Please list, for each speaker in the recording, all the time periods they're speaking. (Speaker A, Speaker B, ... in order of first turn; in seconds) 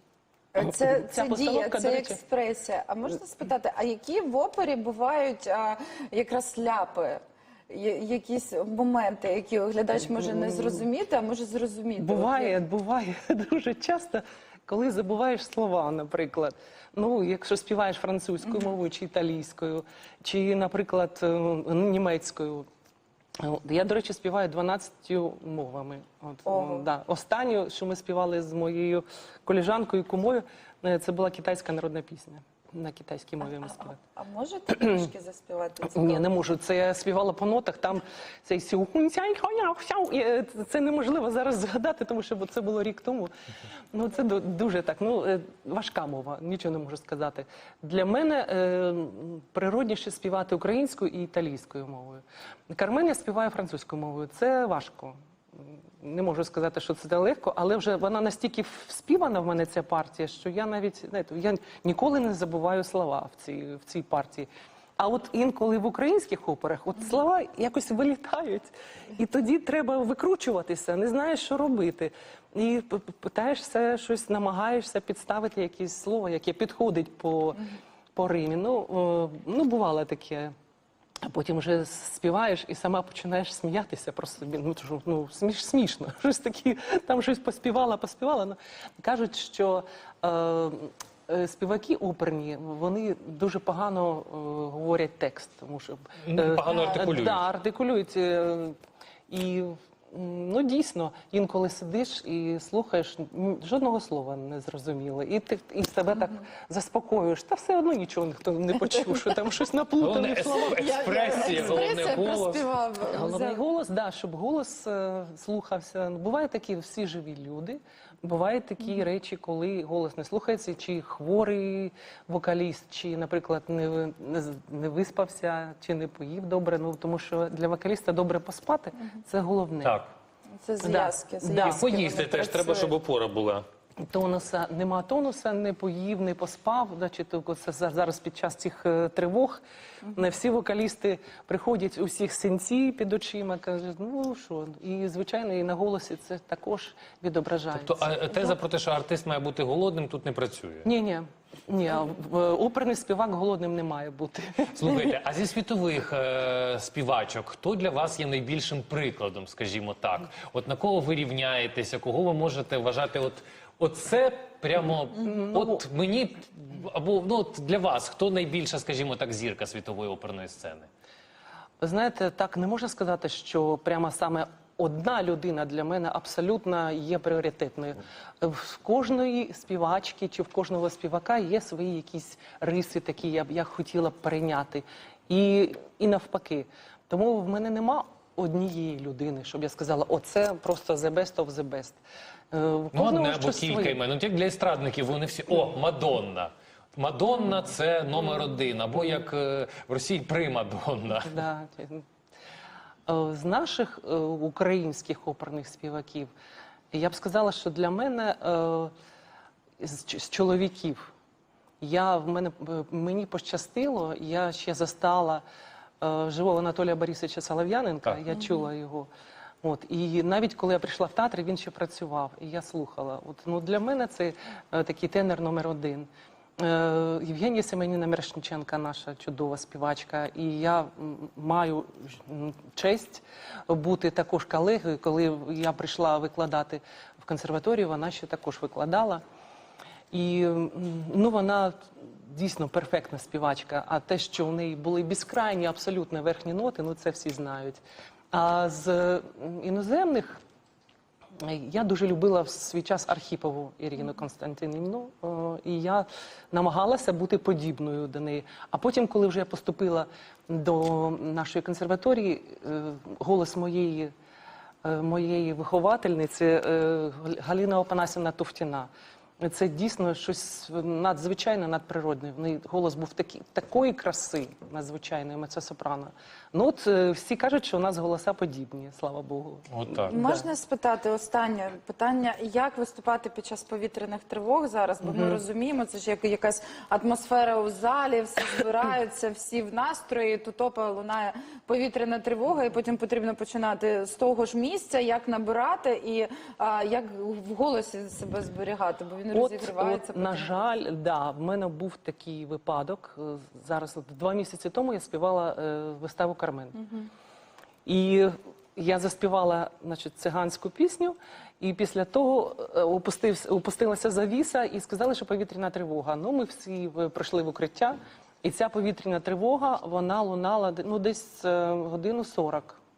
Speaker A: 0.5-12.6, 26.5-26.9, 33.4-36.2, 110.7-113.6, 130.6-132.9, 280.1-300.5
Speaker B: 0.6-2.2, 10.2-10.8, 12.0-22.6, 23.4-34.0, 35.8-43.3, 43.9-80.5, 81.2-98.8, 99.3-112.0, 113.1-130.0, 130.8-131.8, 134.0-139.6, 140.1-148.4, 150.8-155.1, 165.2-165.8, 171.8-192.0, 192.5-194.0, 201.2-202.0, 203.1-206.3, 206.9-208.9, 209.8-211.1, 211.8-215.4, 216.0-219.1, 219.6-239.2, 240.1-247.8, 248.3-250.4, 251.4-264.1, 264.8-280.5, 285.0-285.4, 299.3-306.9, 307.9-322.8
Speaker C: 96.2-97.4, 110.0-112.7, 131.6-133.6, 147.7-150.9, 154.7-170.9, 192.9-201.4, 279.7-280.1